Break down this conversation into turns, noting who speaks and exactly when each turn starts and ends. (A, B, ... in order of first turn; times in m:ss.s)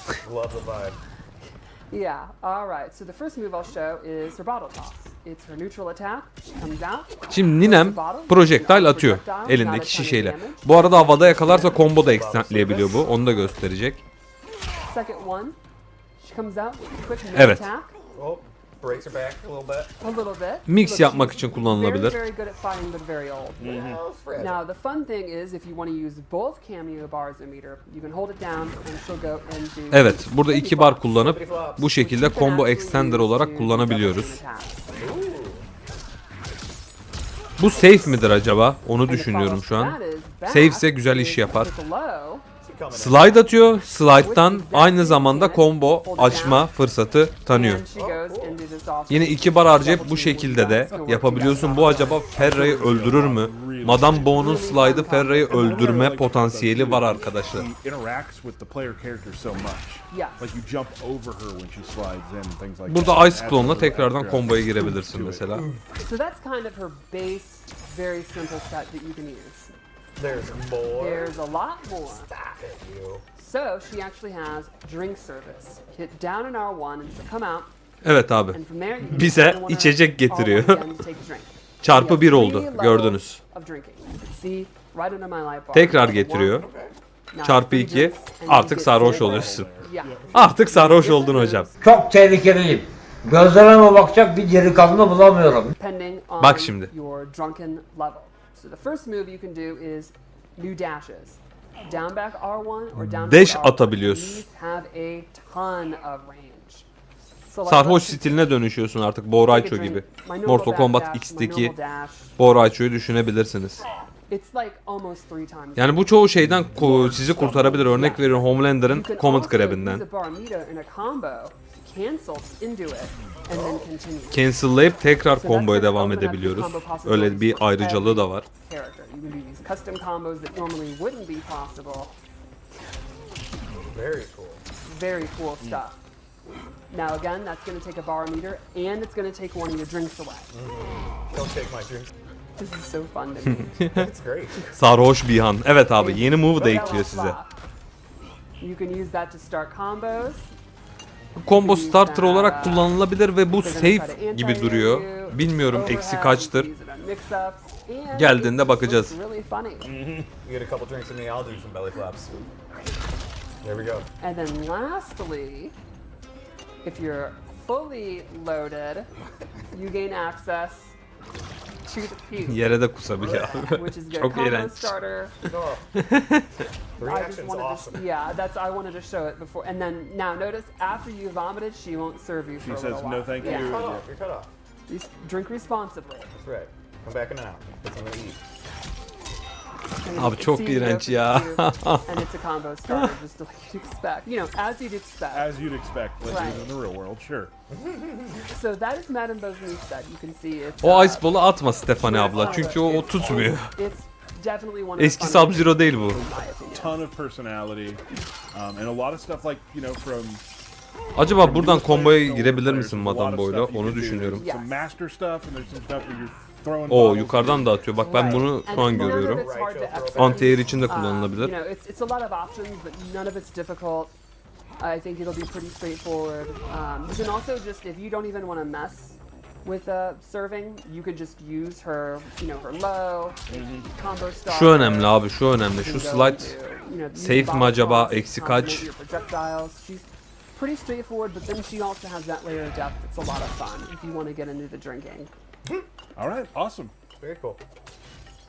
0:00.2-0:01.0 A
0:01.9-0:11.8 B
0:07.3-0:14.0 C
0:11.4-0:13.5 A
0:14.8-0:15.6 B
0:16.2-0:18.0 B
0:17.3-0:17.7 C
0:18.1-0:19.9 A
0:20.0-0:23.7 B
0:20.7-0:22.2 C
0:23.6-0:24.6 A
0:23.6-0:24.0 D
0:24.4-0:35.0 B
0:29.9-0:34.4 C
0:31.2-0:31.8 A
0:35.0-0:35.6 A
0:37.6-0:41.7 C
0:39.0-0:42.4 B
0:42.6-0:43.5 A
0:42.9-0:47.8 C
0:44.2-0:46.7 B
0:47.5-0:52.3 B
0:47.9-0:48.6 A
0:49.1-0:57.7 C
0:52.3-1:05.5 D
0:54.3-0:55.7 B
1:00.1-1:00.6 B
1:02.9-1:05.7 C
1:05.5-1:05.9 A
1:06.0-1:09.7 B
1:10.2-1:11.4 A
1:10.9-1:12.3 B
1:12.1-1:13.2 A
1:13.4-1:17.7 B
1:18.0-1:20.8 C
1:18.5-1:26.6 B
1:21.8-1:23.4 C
1:25.7-1:26.6 C
1:26.6-1:26.9 A
1:27.3-1:31.8 B
1:27.4-1:29.7 C
1:28.9-1:30.5 D
1:30.3-1:31.7 C
1:31.8-1:35.7 E
1:35.8-1:46.9 B
1:36.4-1:36.9 C
1:43.0-1:44.4 C
1:47.4-1:48.4 B
1:47.6-1:51.7 C
1:49.4-1:52.4 B
1:52.4-1:53.8 C
1:54.3-1:56.2 B
1:55.8-2:00.0 C
1:56.6-1:58.1 D
1:57.3-2:04.5 B
2:03.5-2:03.8 A
2:04.3-2:08.4 C
2:05.2-2:12.1 B
2:13.9-2:14.6 A
2:14.8-2:16.0 B
2:16.9-2:20.5 B
2:20.5-2:22.1 A
2:22.6-2:23.9 B
2:23.4-2:24.1 C
2:23.9-2:24.6 A
2:24.7-2:27.4 C
2:26.0-2:27.5 B
2:28.6-2:30.5 B
2:31.4-2:36.7 C
2:31.5-2:33.0 B
2:33.6-2:39.9 B
2:38.1-2:39.2 C
2:39.8-2:40.2 D
2:40.3-2:42.4 A
2:43.6-2:44.1 A
2:44.2-2:45.7 B
2:46.8-2:49.1 B
2:49.7-2:50.9 B
2:51.8-2:55.4 B
2:52.4-2:54.9 C
2:53.2-2:53.7 A
2:55.4-2:55.8 A
2:56.0-2:56.6 C
2:57.0-3:03.9 B
2:57.0-2:58.0 A
3:02.6-3:04.1 D
3:03.4-3:04.5 A
3:04.9-3:06.3 B
3:06.3-3:08.4 A
3:10.0-3:15.6 B
3:10.1-3:12.2 C
3:15.3-3:17.5 D
3:16.2-3:16.7 B
3:17.8-3:18.1 A
3:18.5-3:21.3 B
3:20.8-3:23.7 C
3:21.9-3:27.1 B
3:22.3-3:23.1 A
3:25.0-3:26.2 C
3:26.7-3:30.4 D
3:31.1-3:34.4 C
3:31.2-3:38.5 D
3:34.4-3:34.9 B
3:36.9-3:39.4 C
3:38.0-3:44.1 B
3:38.6-3:40.6 A
3:40.1-3:41.5 C
3:44.8-3:55.2 B
3:53.5-3:53.9 D
3:54.5-3:56.6 C
3:55.8-4:05.3 B
3:57.1-3:58.9 C
4:06.2-4:06.9 D
4:07.2-4:07.6 A